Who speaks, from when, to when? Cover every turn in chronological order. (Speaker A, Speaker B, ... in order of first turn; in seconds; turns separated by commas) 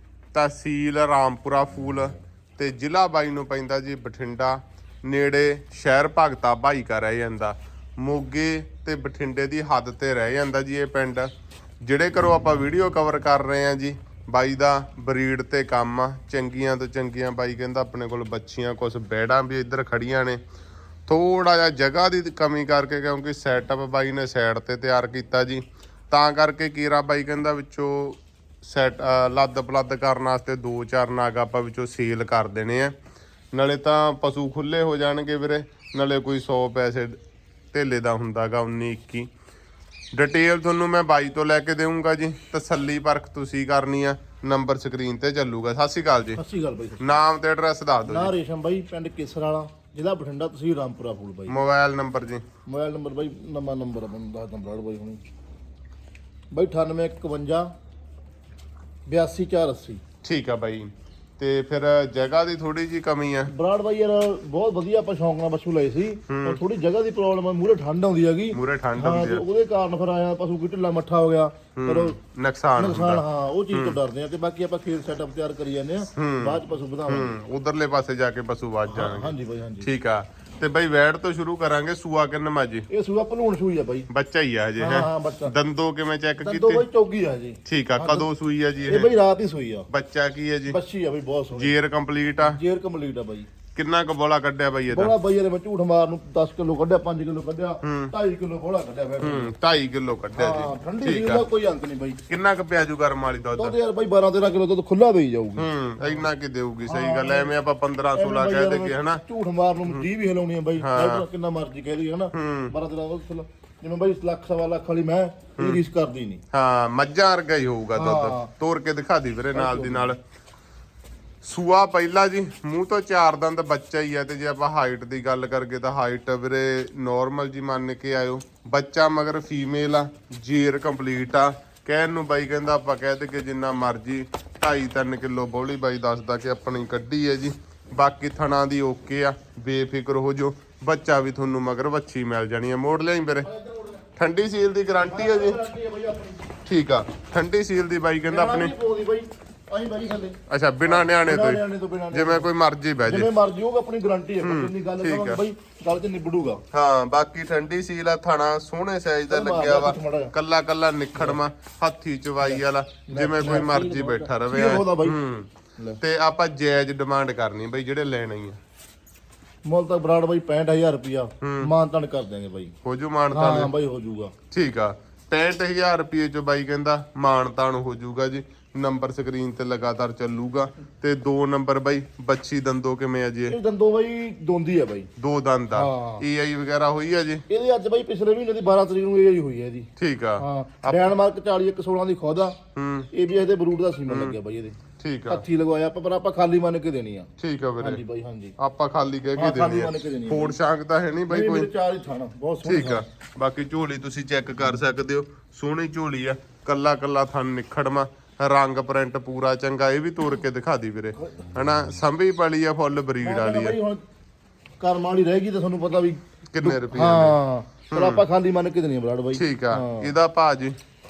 Speaker A: 0.3-20.4, Speaker A: 21.1-32.9, Speaker A: 33.5-37.2, Speaker A: 37.7-39.3, Speaker A: 40.1-46.4, Speaker B: 46.3-47.2, Speaker A: 47.0-48.3, Speaker B: 48.0-51.6, Speaker A: 51.5-52.4, Speaker B: 52.6-55.3, Speaker B: 56.5-57.7, Speaker B: 59.1-60.0, Speaker A: 60.2-63.5, Speaker B: 63.5-72.2, Speaker A: 66.3-66.6, Speaker A: 68.5-69.4, Speaker A: 71.8-74.0, Speaker B: 72.8-77.3, Speaker A: 76.1-82.9, Speaker B: 78.9-79.9, Speaker B: 82.9-84.1, Speaker A: 84.1-86.8, Speaker B: 84.8-85.5, Speaker B: 86.4-88.3, Speaker A: 87.6-89.1, Speaker B: 88.8-89.9, Speaker A: 89.9-90.8, Speaker B: 90.7-91.7, Speaker A: 91.5-92.6, Speaker B: 92.4-93.5, Speaker A: 93.7-95.2, Speaker B: 94.9-99.6, Speaker A: 97.8-98.1, Speaker A: 99.2-101.5, Speaker B: 100.3-102.2, Speaker A: 102.3-103.8, Speaker B: 103.5-106.3, Speaker A: 105.5-109.2, Speaker B: 106.8-107.5, Speaker B: 108.1-116.4, Speaker A: 110.8-111.2, Speaker A: 112.3-112.7, Speaker A: 116.5-120.2, Speaker B: 117.9-118.5, Speaker B: 119.5-120.1, Speaker A: 121.4-143.5, Speaker B: 143.4-144.0, Speaker A: 144.0-145.6, Speaker B: 145.1-146.6, Speaker A: 146.6-148.7, Speaker B: 148.3-152.5, Speaker A: 150.5-153.3, Speaker B: 153.0-156.6, Speaker A: 154.4-155.4, Speaker A: 156.7-165.5, Speaker B: 159.3-160.3, Speaker B: 161.1-161.4, Speaker B: 162.4-165.2, Speaker A: 166.0-168.6, Speaker B: 169.6-172.7, Speaker A: 171.4-171.7, Speaker A: 172.8-173.7, Speaker B: 173.3-174.3, Speaker A: 174.5-183.6, Speaker B: 183.5-185.1, Speaker A: 185.2-187.4, Speaker B: 185.7-186.2, Speaker B: 187.5-198.5, Speaker A: 190.0-191.1, Speaker A: 192.7-193.1, Speaker A: 194.1-194.4, Speaker A: 195.0-195.4, Speaker A: 197.4-198.0, Speaker A: 198.6-201.7, Speaker B: 199.3-200.6, Speaker B: 201.3-203.0, Speaker A: 202.6-213.8, Speaker B: 211.2-211.5, Speaker B: 213.2-214.0, Speaker B: 214.8-220.1, Speaker A: 216.5-217.4, Speaker A: 217.9-218.2, Speaker A: 219.3-220.8